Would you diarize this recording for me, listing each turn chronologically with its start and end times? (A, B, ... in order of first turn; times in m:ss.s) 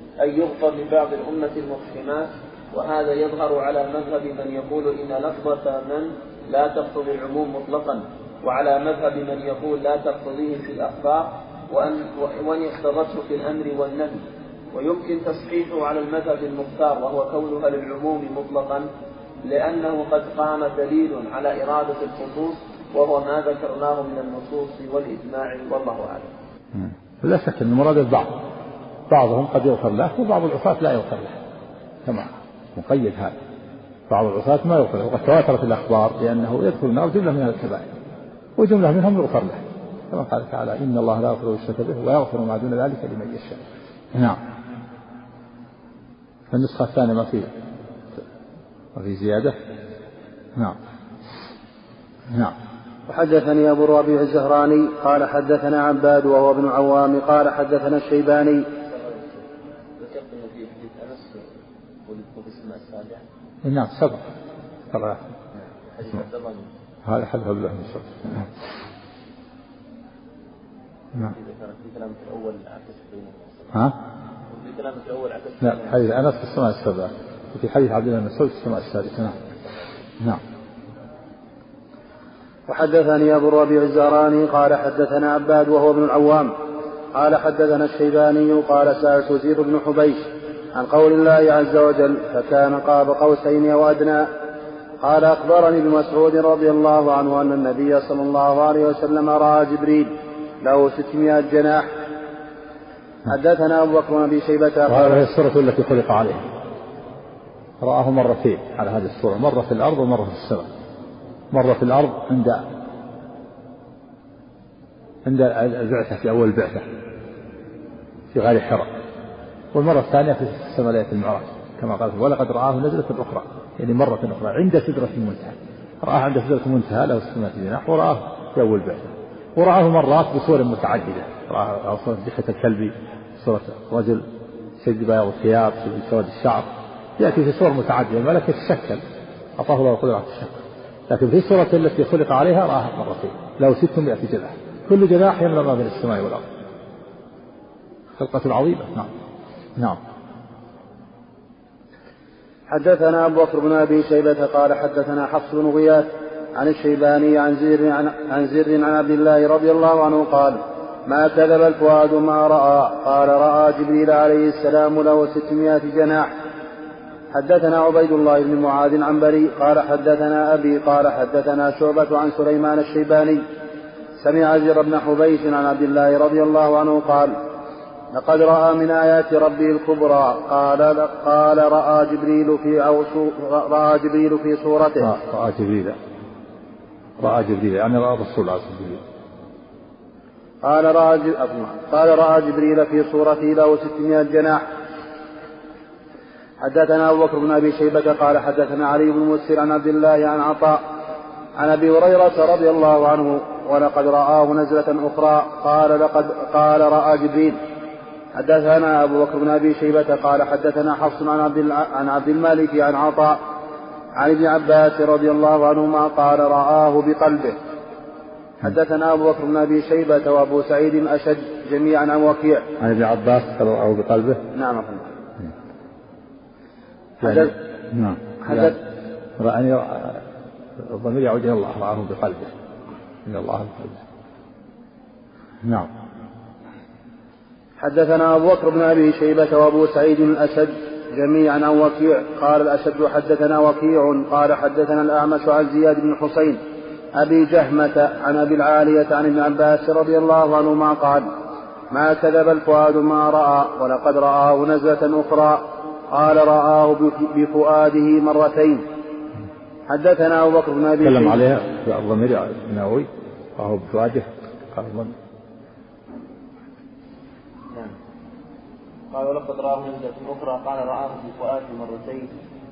0:00.2-0:18.9 A
0:19.4-0:26.3 A
0:26.7-0:28.3 B
0:29.1-0:31.4 B
0:32.0-0:33.3 B
0:34.1-0:37.8 B
0:38.6-0:39.6 B
0:40.1-0:44.4 B
0:46.5-0:47.5 B
0:48.9-0:49.6 B
0:53.1-0:58.6 C
0:58.9-0:59.4 A
1:00.0-1:01.5 A
1:02.0-1:03.2 A
1:03.6-1:04.2 B
1:04.9-1:05.2 B
1:05.6-1:06.7 A
1:07.0-1:08.5 B
1:11.2-1:13.8 A
1:13.7-1:14.0 B
1:14.5-1:16.0 A
1:15.6-1:19.4 B
1:22.7-1:26.5 C
1:27.1-1:30.2 C
1:30.7-1:34.3 C
1:35.0-1:41.9 C
1:43.3-1:45.2 C
1:44.9-1:46.4 B
1:47.8-1:50.6 B
1:51.5-1:52.6 B
1:55.2-1:56.8 B
1:58.3-1:58.9 B
1:59.7-2:14.2 B
2:14.8-2:19.0 B
2:19.6-2:20.6 B
2:21.1-2:26.4 B
2:28.2-2:29.1 B
2:32.7-2:46.3 C
2:47.3-2:53.4 C
2:54.2-2:57.4 C
2:58.1-3:05.1 C
3:05.0-3:06.0 B
3:07.2-3:09.0 B
3:10.6-3:14.6 C
3:16.6-3:20.8 C
3:21.6-3:27.6 C
3:28.3-3:33.4 C
3:34.2-3:37.6 C
3:38.6-3:42.7 C
3:42.8-3:44.4 B
3:44.5-3:45.1 C
3:47.2-3:47.5 C
3:47.2-3:48.8 B
3:48.4-3:48.8 C
3:49.4-3:50.2 B
3:50.8-3:52.5 B
3:53.2-3:54.0 B
3:55.6-3:55.9 B
3:57.8-4:06.6 C
4:07.1-4:11.3 C
4:11.9-4:18.8 C
4:19.9-4:21.4 C
4:21.0-4:25.1 B
4:27.7-4:28.0 A
4:29.1-4:32.3 A